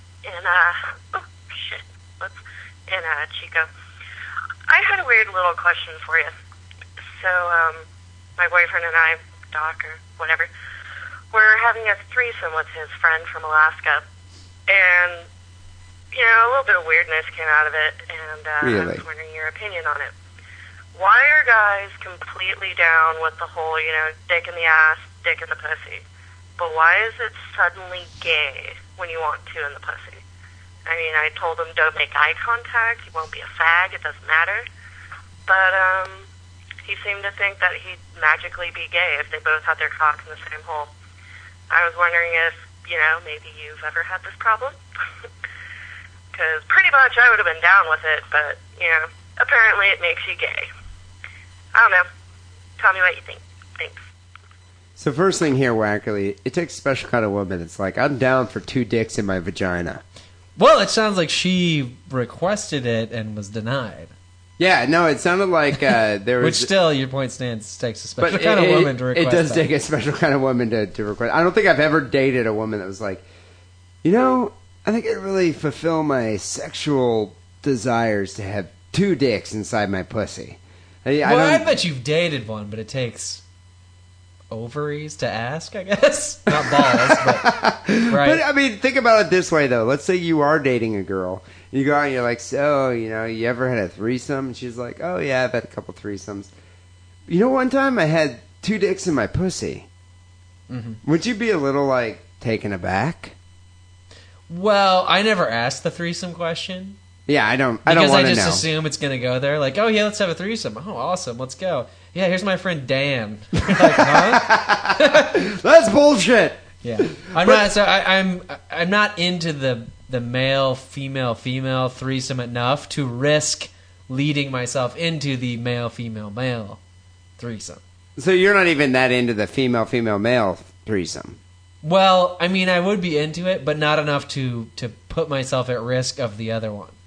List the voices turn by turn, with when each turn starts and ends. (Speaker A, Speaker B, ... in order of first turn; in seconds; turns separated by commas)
Speaker A: 0.2-3.7, Speaker A: 4.7-6.3, Speaker A: 7.2-7.8, Speaker A: 8.4-10.5, Speaker A: 11.3-14.0, Speaker A: 14.7-15.2, Speaker A: 16.1-20.1, Speaker B: 18.6-19.0, Speaker A: 20.9-26.0, Speaker A: 26.6-30.2, Speaker A: 30.9-34.6, Speaker A: 35.5-36.3, Speaker A: 36.8-40.9, Speaker A: 41.7-44.8, Speaker A: 46.3-50.7, Speaker A: 51.7-52.1, Speaker A: 52.8-54.0, Speaker B: 55.0-60.0, Speaker C: 60.5-64.1, Speaker B: 64.6-66.7, Speaker C: 66.4-69.7, Speaker B: 68.2-73.2, Speaker B: 74.0-81.7, Speaker C: 81.2-83.4, Speaker C: 84.5-87.5, Speaker B: 86.5-96.5, Speaker C: 88.1-88.4, Speaker B: 97.3-99.9, Speaker C: 100.7-101.0, Speaker B: 101.0-103.3, Speaker C: 104.5-107.0, Speaker B: 107.3-108.6, Speaker C: 107.8-115.4, Speaker B: 113.6-117.7, Speaker C: 116.8-126.8, Speaker C: 127.4-127.8, Speaker B: 128.2-131.4, Speaker C: 131.8-137.0